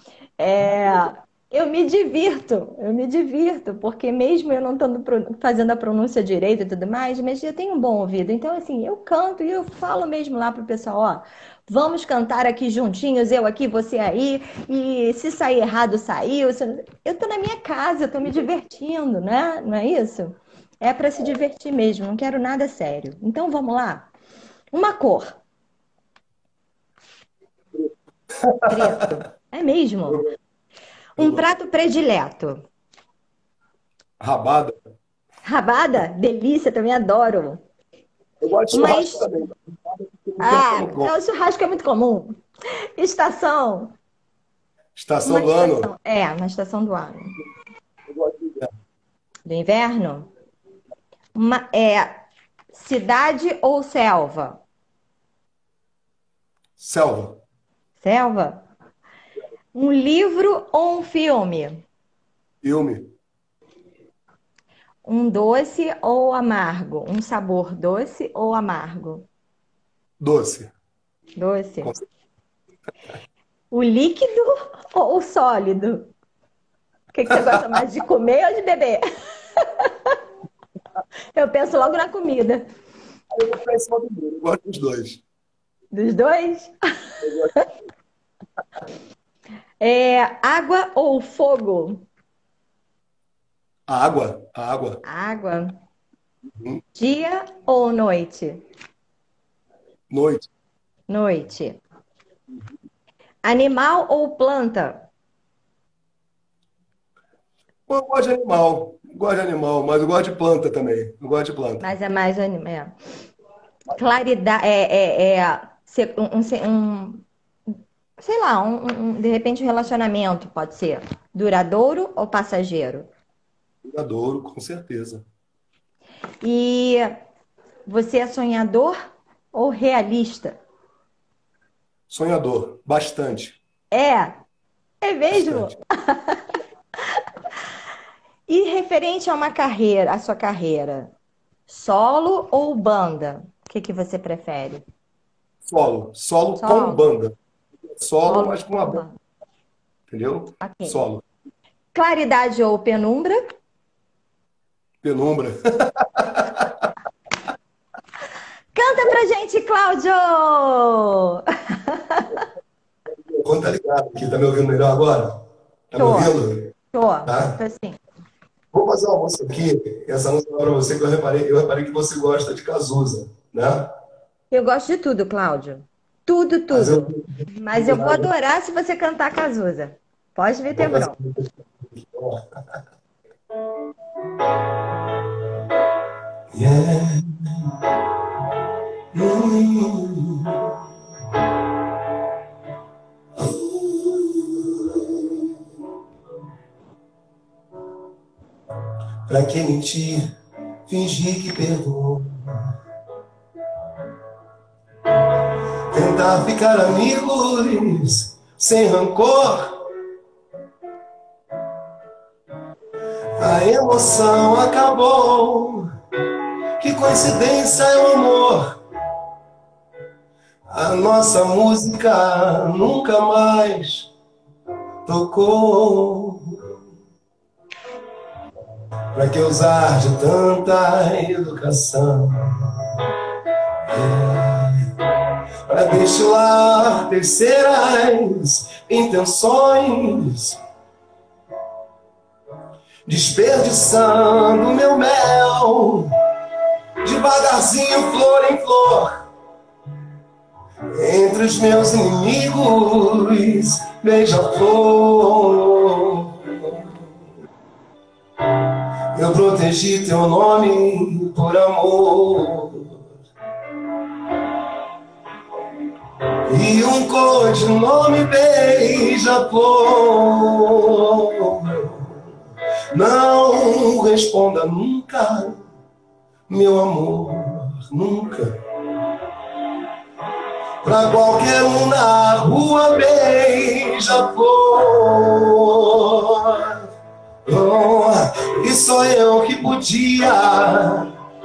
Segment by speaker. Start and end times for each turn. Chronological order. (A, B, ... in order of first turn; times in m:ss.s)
0:00.4-0:24.1 A
0:24.7-0:25.4 A
0:28.4-0:29.1 B
0:28.6-0:30.2 A
0:30.1-0:30.3 B
0:31.2-0:32.6 A
0:31.2-0:31.4 B
0:34.2-0:34.8 B
0:35.4-0:37.6 A
0:38.4-0:41.1 B
0:38.7-0:39.3 A
0:40.4-0:42.4 A
0:43.0-0:44.0 A
0:45.0-0:45.9 B
0:45.3-0:47.4 A
0:48.1-0:48.7 B
0:49.4-0:50.3 A
0:51.3-0:54.6 A
0:56.8-0:57.4 B
0:58.0-0:58.6 A
0:59.7-1:01.8 A
1:02.6-1:03.1 B
1:05.0-1:09.3 A
1:10.2-1:10.7 B
1:11.4-1:11.9 A
1:13.7-1:16.1 A
1:17.1-1:19.0 A
1:19.6-1:20.2 A
1:21.4-1:22.6 A
1:23.3-1:25.2 B
1:25.9-1:27.6 A
1:27.2-1:27.5 B
1:29.8-1:32.1 A
1:33.9-1:35.0 B
1:35.0-1:35.8 A
1:36.5-1:36.8 B
1:37.0-1:38.6 A
1:40.1-1:40.5 B
1:41.1-1:41.8 A
1:43.4-1:45.0 A
1:47.9-1:51.9 B
1:51.8-1:53.0 A
1:54.0-2:03.1 A
2:03.8-2:05.2 B
2:06.4-2:07.2 A
2:07.9-2:09.0 A
2:09.5-2:10.6 A
2:12.1-2:13.6 B
2:13.9-2:14.4 A
2:15.0-2:16.4 A
2:15.3-2:15.8 B
2:18.5-2:21.1 A
2:21.7-2:24.8 A
2:25.6-2:27.3 B
2:26.6-2:27.0 A
2:27.8-2:29.0 B
2:28.2-2:29.2 A
2:30.1-2:31.2 B
2:30.6-2:31.0 A
2:31.9-2:33.6 A
2:35.0-2:36.9 B
2:38.8-2:42.4 A
2:43.1-2:45.4 B
2:45.9-2:46.7 B
2:46.0-2:46.4 A
2:46.9-2:48.0 A
2:47.2-2:47.6 B
2:48.7-2:53.9 B
2:54.5-3:01.2 A
2:56.7-2:58.3 B
3:00.8-3:02.4 B
3:06.5-3:07.9 B
3:09.1-3:10.9 B
3:13.4-3:15.6 B
3:19.3-3:20.3 B
3:20.9-3:22.8 B
3:25.2-3:29.9 B
3:33.4-3:35.9 B
3:36.8-3:38.8 B
3:40.7-3:44.1 B
3:45.0-3:46.8 B
3:49.1-3:52.9 B
3:53.9-4:00.6 B
4:03.1-4:06.2 B
4:07.0-4:09.3 B
4:10.9-4:17.0 B
4:18.5-4:23.0 B
4:26.4-4:32.3 B
4:32.9-4:35.6 B
4:36.5-4:38.6 B
4:40.8-4:46.9 B
4:47.4-4:51.2 B